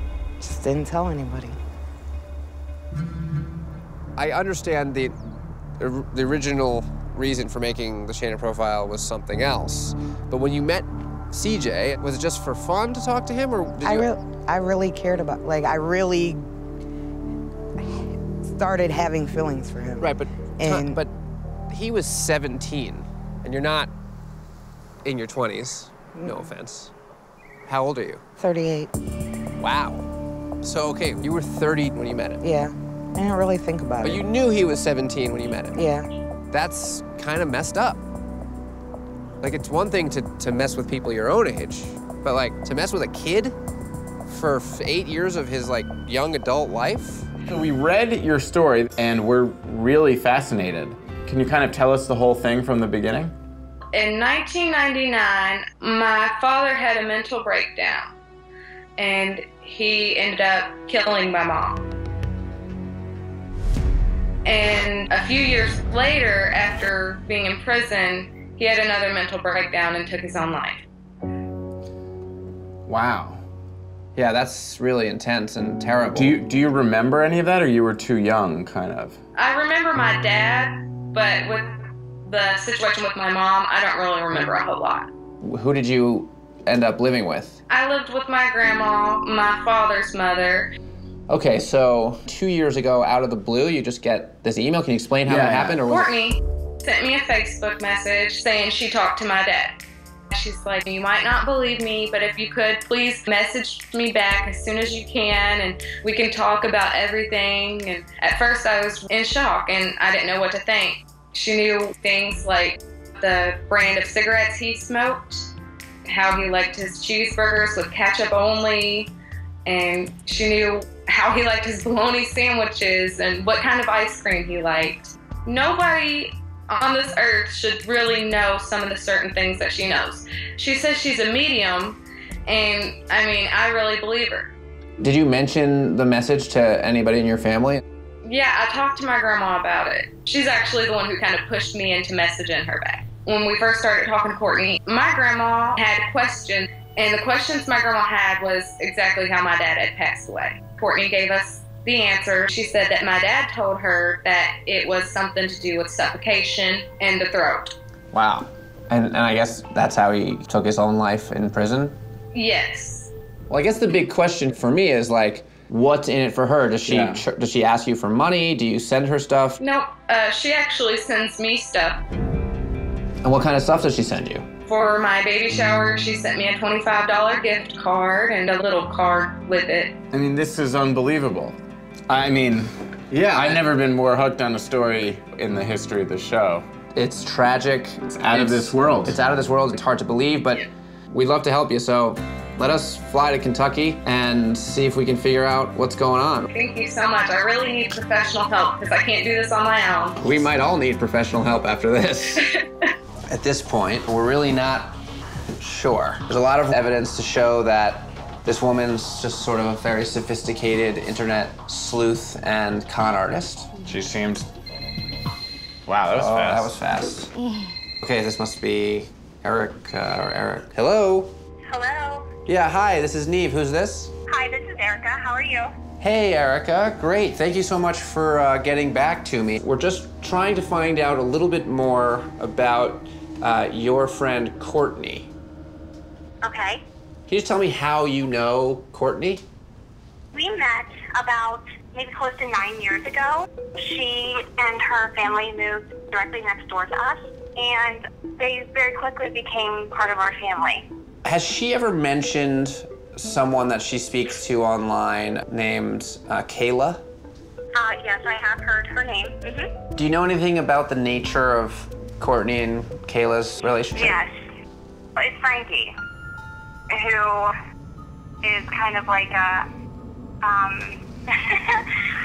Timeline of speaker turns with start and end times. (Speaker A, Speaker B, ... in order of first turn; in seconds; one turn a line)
Speaker A: 0.4-1.6
Speaker B: 4.2-5.2
Speaker B: 5.8-14.1
Speaker A: 13.8-16.5
Speaker A: 17.9-21.0
Speaker B: 20.0-21.1
Speaker B: 21.7-23.9
Speaker B: 25.0-26.9
Speaker B: 27.7-28.2
Speaker A: 28.4-28.9
Speaker B: 29.6-30.1
Speaker B: 30.6-32.4
Speaker A: 32.4-34.2
Speaker B: 34.0-35.8
Speaker A: 35.7-36.1
Speaker B: 36.5-38.0
Speaker B: 39.4-43.6
Speaker B: 44.3-47.3
Speaker C: 47.5-53.3
Speaker D: 53.9-58.1
Speaker D: 59.0-61.8
Speaker D: 64.5-70.8
Speaker C: 72.9-73.4
Speaker B: 74.2-76.4
Speaker C: 76.1-79.2
Speaker D: 79.4-85.1
Speaker B: 85.4-87.6
Speaker D: 87.7-90.7
Speaker B: 91.3-96.1
Speaker C: 95.3-95.8
Speaker D: 95.9-99.8
Speaker D: 100.3-115.5
Speaker D: 116.1-119.1
Speaker D: 119.7-134.5
Speaker B: 135.0-137.8
Speaker D: 138.2-157.7
Speaker B: 158.1-162.0
Speaker D: 162.3-163.1
Speaker B: 163.5-169.6
Speaker C: 166.8-167.2
Speaker D: 169.6-172.0
Speaker B: 173.2-174.5
Speaker D: 174.7-179.9
Speaker C: 180.1-181.6
Speaker C: 182.1-186.7
Speaker B: 183.1-183.6
Speaker B: 186.9-196.5
Speaker C: 188.1-189.2
Speaker D: 196.5-200.2
Speaker B: 200.2-202.4
Speaker D: 202.4-202.9
Speaker B: 203.3-205.0
Speaker B: 205.6-213.7
Speaker C: 213.8-214.5
Speaker C: 215.9-216.7
Speaker B: 216.1-217.3
Speaker B: 218.0-221.3
Speaker E: 221.7-222.3
Speaker B: 222.5-224.1
Speaker E: 224.3-225.7
Speaker B: 226.0-235.3
Speaker E: 236.4-236.8
Speaker B: 237.3-239.4
Speaker E: 240.3-250.9
Speaker B: 251.2-257.1
Speaker E: 257.8-259.7
Speaker B: 260.0-264.2
Speaker E: 264.0-264.3
Speaker E: 265.2-265.9
Speaker E: 266.9-267.6
Speaker E: 268.4-269.7
Speaker E: 270.4-271.9